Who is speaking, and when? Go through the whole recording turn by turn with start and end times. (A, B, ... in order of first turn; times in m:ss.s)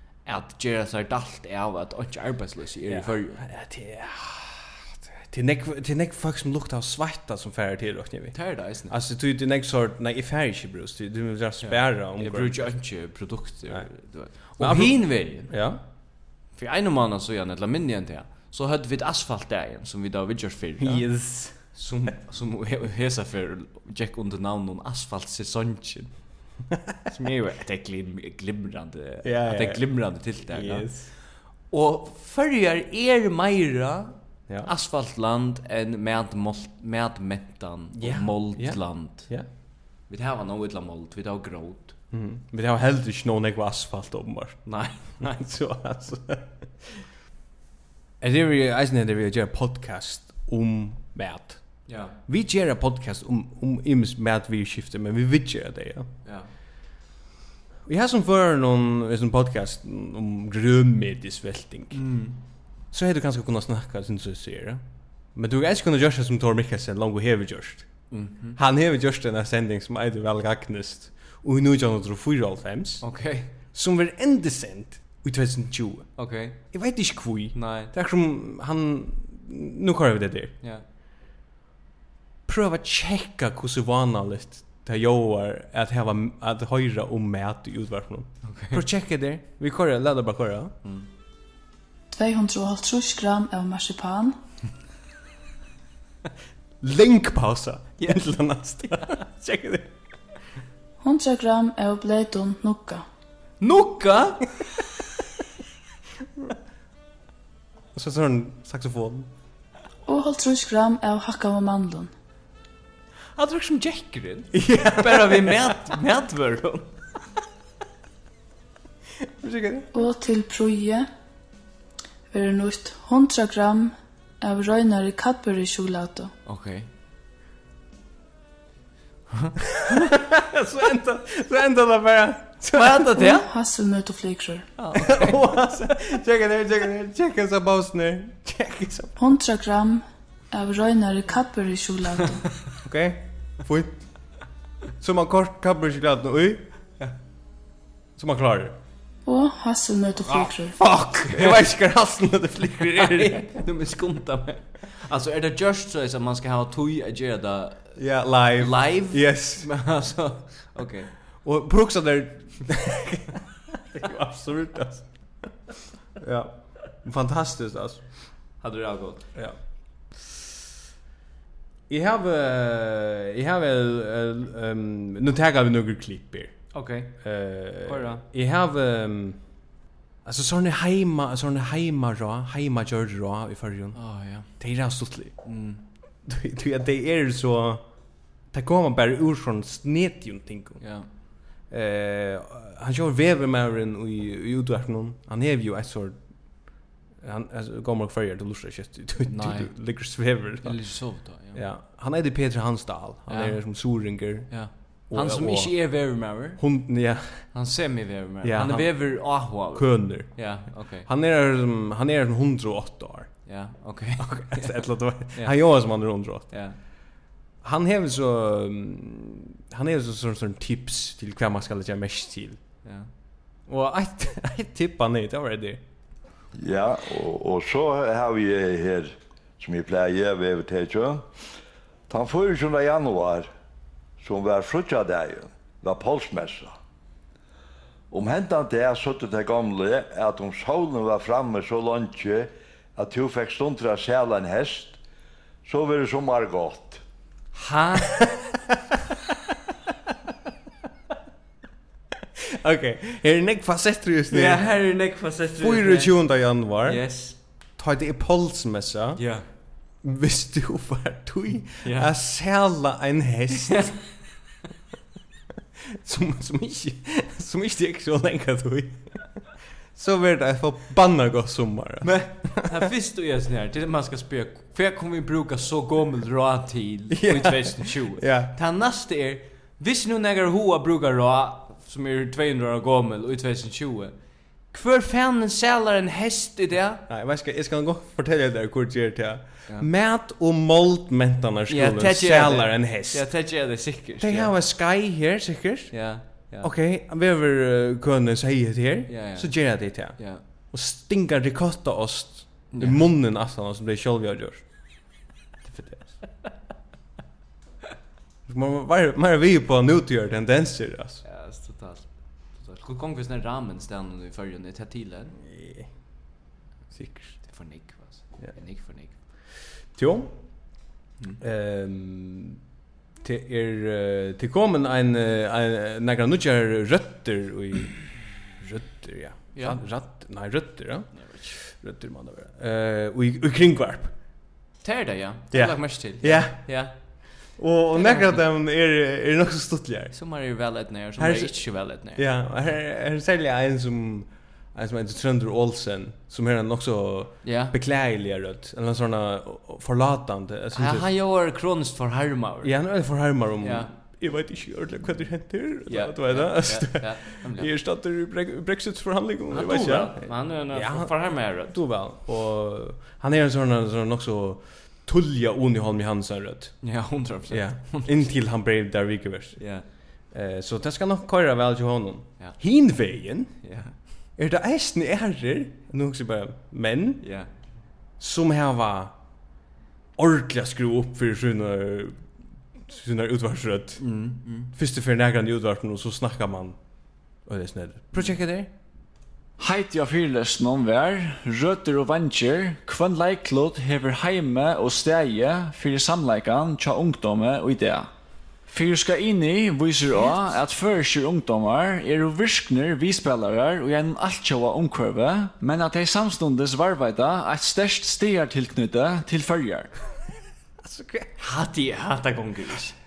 0:00.3-0:03.4 A
0:02.9-0:12.7 B
0:08.3-0:09.0 A
0:11.6-0:15.6 A
0:14.5-0:15.8 B
0:16.5-0:26.1 A
0:20.8-0:22.1 B
0:27.1-0:31.0 A
0:29.2-0:31.1 B
0:31.7-0:39.3 A
0:38.0-0:39.5 B
0:40.1-0:42.0 A
0:42.1-0:47.0 B
0:44.7-0:45.4 A
0:48.2-0:56.1 B
0:51.9-0:52.2 A
0:57.9-1:02.0 B
1:01.9-1:02.4 A
1:02.9-1:04.8 B
1:05.3-1:07.9 B
1:08.1-1:08.6 A
1:08.6-1:13.0 B
1:13.0-1:13.5 A
1:13.6-1:20.6 B
1:16.2-1:16.6 A
1:17.5-1:17.9 A
1:22.5-1:30.8 B
1:28.4-1:28.8 A
1:32.1-1:34.4 C
1:36.8-1:39.9 B
1:38.0-1:38.3 A
1:41.0-1:43.0 C
1:43.6-1:44.5 A
1:47.9-1:49.3 B
1:50.1-1:52.1 C
1:53.4-1:57.0 A
1:54.5-1:55.8 B
1:59.2-1:59.9 B
1:59.9-2:01.1 C
2:02.3-2:06.3 C
2:06.5-2:06.9 A
2:09.7-2:13.3 B
2:12.7-2:13.5 A
2:13.2-2:14.7 C
2:14.8-2:15.6 A
2:15.0-2:19.2 B
2:19.2-2:22.4 C
2:22.8-2:24.0 B
2:25.0-2:26.7 B
2:28.2-2:28.8 B
2:29.2-2:30.8 C
2:30.3-2:31.7 A
2:31.0-2:33.6 B
2:32.9-2:38.0 A
2:38.0-2:39.7 B
2:38.6-2:41.1 A
2:41.4-2:45.5 B
2:46.2-2:48.0 B
2:48.6-2:49.3 A
2:51.9-2:56.7 B
2:56.7-2:57.2 A
2:57.2-2:59.4 B
2:57.8-2:58.2 A
3:00.2-3:05.4 B
3:04.0-3:04.6 A
3:05.4-3:05.8 A
3:06.3-3:07.8 B
3:08.5-3:10.8 B
3:10.8-3:11.1 A
3:11.7-3:16.7 B
3:17.2-3:20.8 B
3:19.3-3:19.7 A
3:20.6-3:21.6 A
3:21.4-3:27.5 B
3:23.3-3:26.6 A
3:27.5-3:31.1 A
3:28.4-3:33.5 B
3:33.5-3:35.6 A
3:34.2-3:36.5 B
3:36.5-3:36.8 A
3:37.6-3:42.6 B
3:42.8-3:43.1 A
3:43.7-3:45.8 B
3:46.6-3:51.3 D
3:52.1-3:53.5 D
3:54.2-3:56.7 D
3:58.1-4:05.0 D
4:05.6-4:07.0 D
4:07.5-4:08.2 A
4:08.0-4:08.9 B
4:12.4-4:14.6 B
4:14.3-4:16.2 A
4:15.6-4:19.2 B
4:16.8-4:17.4 A
4:19.2-4:19.4 A
4:20.0-4:24.0 B
4:21.8-4:22.1 A
4:23.7-4:24.0 A
4:25.9-4:32.6 B
4:32.0-4:44.2 A
4:37.1-4:38.6 B
4:44.7-4:47.1 A
4:47.1-4:53.4 B
4:51.7-4:54.5 A
4:54.2-4:56.0 B
4:55.9-4:56.7 A
4:56.6-5:04.6 B
4:59.1-5:00.4 A
5:02.7-5:03.0 A
5:05.6-5:06.1 B
5:08.5-5:11.2 B
5:11.2-5:15.4 A
5:15.5-5:15.9 B
5:16.9-5:17.4 B
5:17.4-5:19.2 A
5:20.0-5:20.3 B
5:21.4-5:22.6 B
5:23.2-5:34.2 B
5:29.5-5:29.8 A
5:31.1-5:31.6 A
5:34.8-5:37.3 A
5:35.5-5:40.2 B
5:37.9-5:38.4 A
5:40.1-5:42.3 A
5:41.2-5:51.1 B
5:47.4-5:47.8 A
5:50.7-5:52.7 A
5:52.6-6:06.8 B
5:53.6-5:53.9 A
5:55.9-5:57.7 A
5:59.5-6:01.8 A
6:06.8-6:08.2 A
6:07.5-6:09.6 B
6:09.6-6:09.8 A
6:10.3-6:13.6 B
6:13.6-6:13.9 A
6:14.4-6:17.2 B
6:17.2-6:17.5 A
6:18.2-6:19.2 B
6:20.2-6:22.2 B
6:22.8-6:24.1 B
6:24.0-6:24.7 A
6:24.7-6:26.8 B
6:27.4-6:28.7 B
6:29.6-6:38.1 E
6:38.7-6:49.9 E
6:50.8-6:51.3 B
6:51.4-6:52.9 A